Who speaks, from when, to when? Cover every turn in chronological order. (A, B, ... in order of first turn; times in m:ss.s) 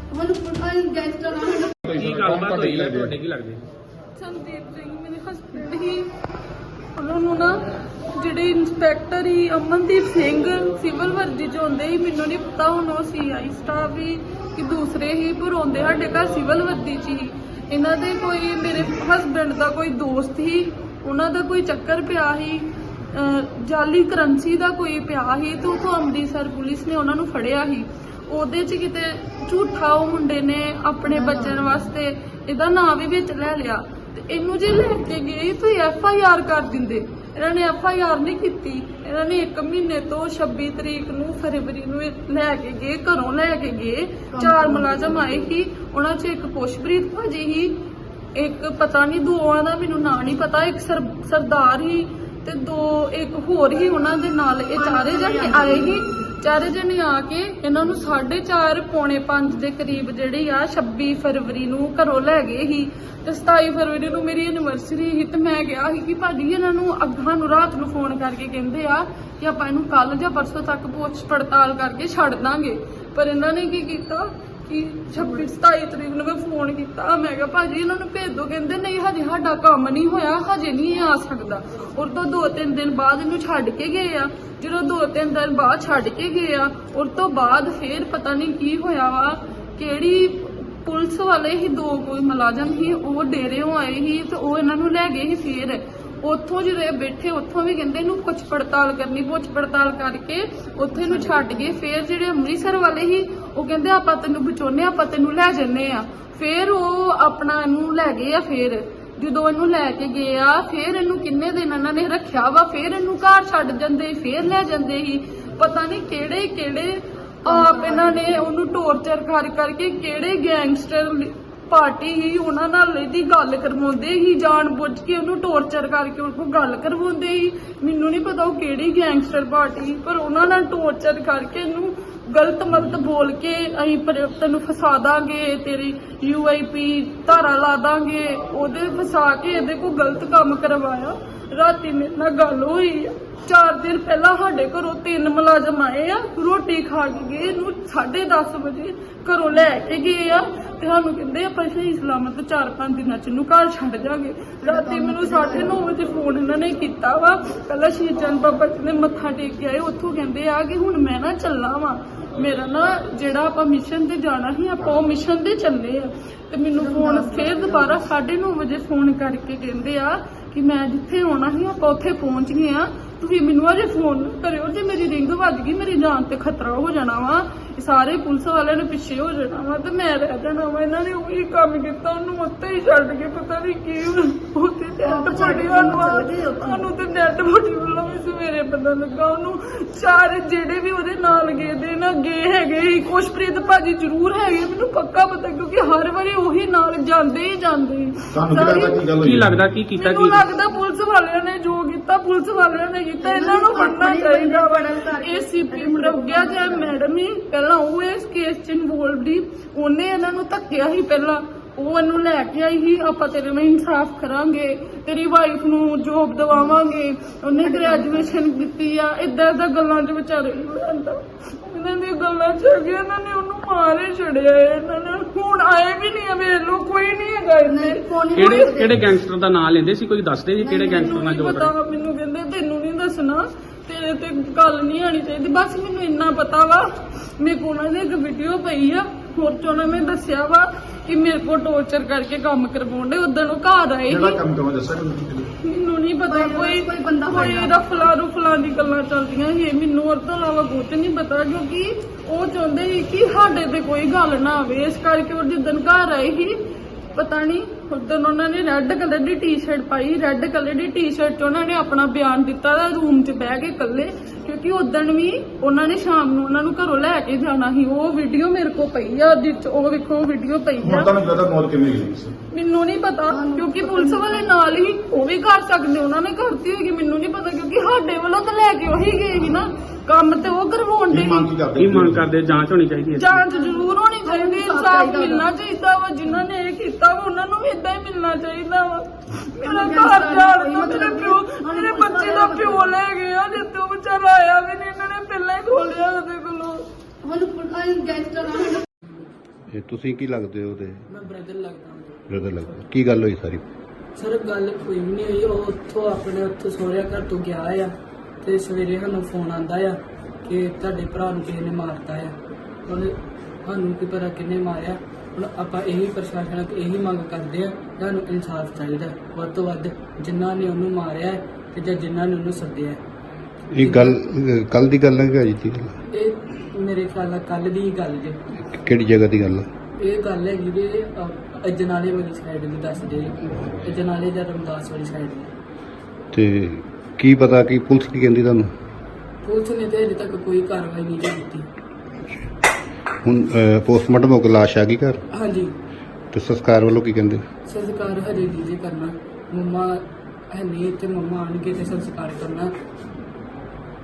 0:00.1-0:01.9 A
0:01.8-0:03.2 B
0:01.9-0:03.7 C
0:04.2-0:06.1 D
0:07.0-0:47.7 D
0:31.1-0:31.7 A
0:44.3-0:45.5 A
0:48.4-3:19.0 D
0:54.8-0:55.9 A
1:41.0-1:41.7 A
1:57.5-1:58.4 A
2:34.6-2:35.9 A
2:46.8-2:48.0 A
3:05.0-3:06.8 A
3:18.3-3:19.6 B
3:19.2-3:20.4 C
3:20.0-3:48.9 D
3:23.2-3:26.9 A
3:37.6-3:38.3 A
3:47.7-3:49.0 A
3:48.3-3:51.7 C
3:50.7-3:51.1 A
3:50.7-3:56.9 D
3:57.4-4:04.4 D
4:04.1-4:05.5 B
4:05.6-4:16.6 D
4:06.3-4:07.9 A
4:17.2-4:31.1 D
4:30.8-4:32.4 B
4:32.5-4:41.5 D
4:33.3-4:34.5 A
4:41.1-4:42.3 B
4:41.8-4:43.4 C
4:43.1-4:56.8 D
4:43.5-4:45.5 A
4:49.6-4:53.0 A
4:57.2-4:58.9 A
4:59.7-5:01.1 E
5:01.1-5:02.3 F
5:02.3-5:03.6 E
5:04.2-5:12.4 F
5:12.9-5:23.0 F
5:23.7-5:26.0 E
5:23.8-5:24.2 F
5:26.1-5:28.4 F
5:28.6-5:29.7 E
5:30.0-5:35.5 F
5:36.3-5:38.7 E
5:39.4-5:41.7 F
5:43.2-5:45.2 E
5:45.3-5:45.7 F
5:46.3-5:47.4 E
5:47.7-5:52.7 F